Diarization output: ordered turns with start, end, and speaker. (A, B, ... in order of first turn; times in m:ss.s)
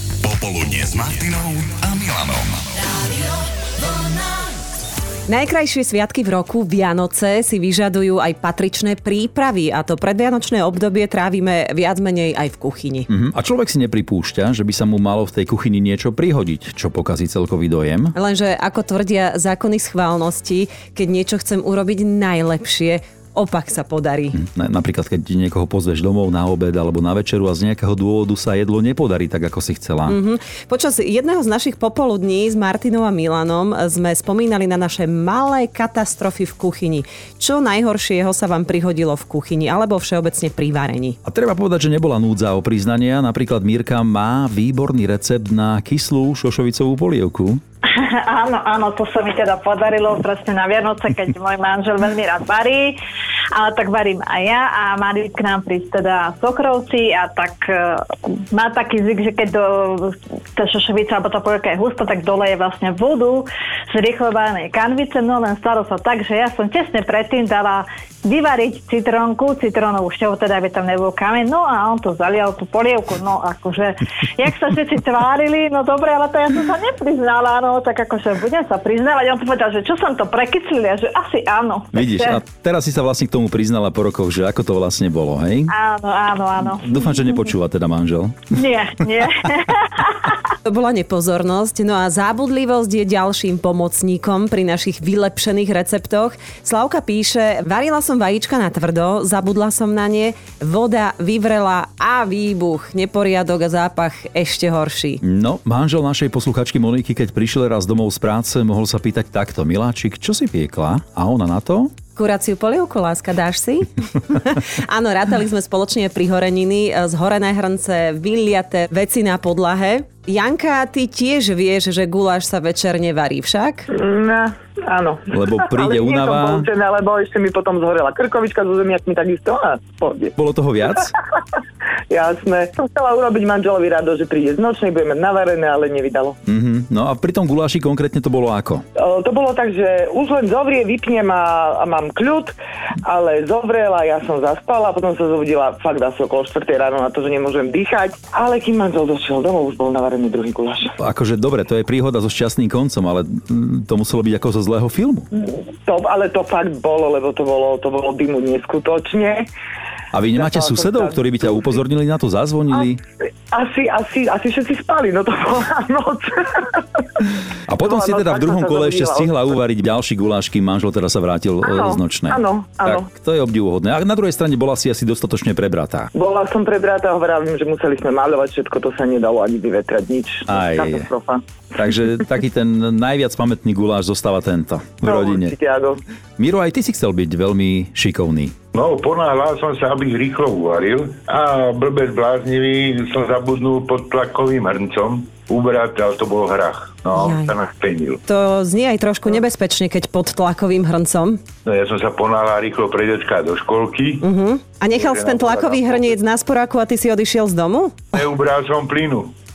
0:00.2-0:02.7 A
0:05.3-0:13.1 B
0:13.1-0:18.1 C
0:18.2-0:24.4 B
0:24.3-0:30.2 C
0:30.1-0:41.2 B
0:41.2-0:47.6 C
0:47.9-0:53.0 D
0:53.5-1:22.4 D
1:21.9-1:25.7 C
1:25.7-1:27.1 D
1:26.6-1:28.5 C
1:28.6-1:30.4 D
1:30.7-1:45.2 B
1:45.2-1:51.9 C
1:52.2-2:03.9 B
2:03.9-2:10.3 E
2:05.3-2:06.7 C
2:10.4-2:11.2 C
2:12.1-2:16.4 E
2:16.5-2:18.8 C
2:19.0-2:30.9 E
2:31.0-2:35.3 C
2:35.3-2:39.5 E
2:40.1-2:43.0 C
2:40.3-2:41.5 E
2:43.5-2:47.2 E
2:47.7-2:56.1 C
2:47.8-2:49.4 E
2:51.6-2:53.1 E
2:56.1-3:01.4 E
3:00.5-3:01.1 C
3:01.7-3:05.6 C
3:05.0-3:06.0 E
3:06.4-3:08.5 C
3:08.7-3:18.2 F
3:17.1-3:17.6 B
3:18.2-3:21.4 B
3:21.7-3:24.2 F
3:24.2-3:28.2 B
3:24.9-3:26.2 F
3:28.1-3:29.3 F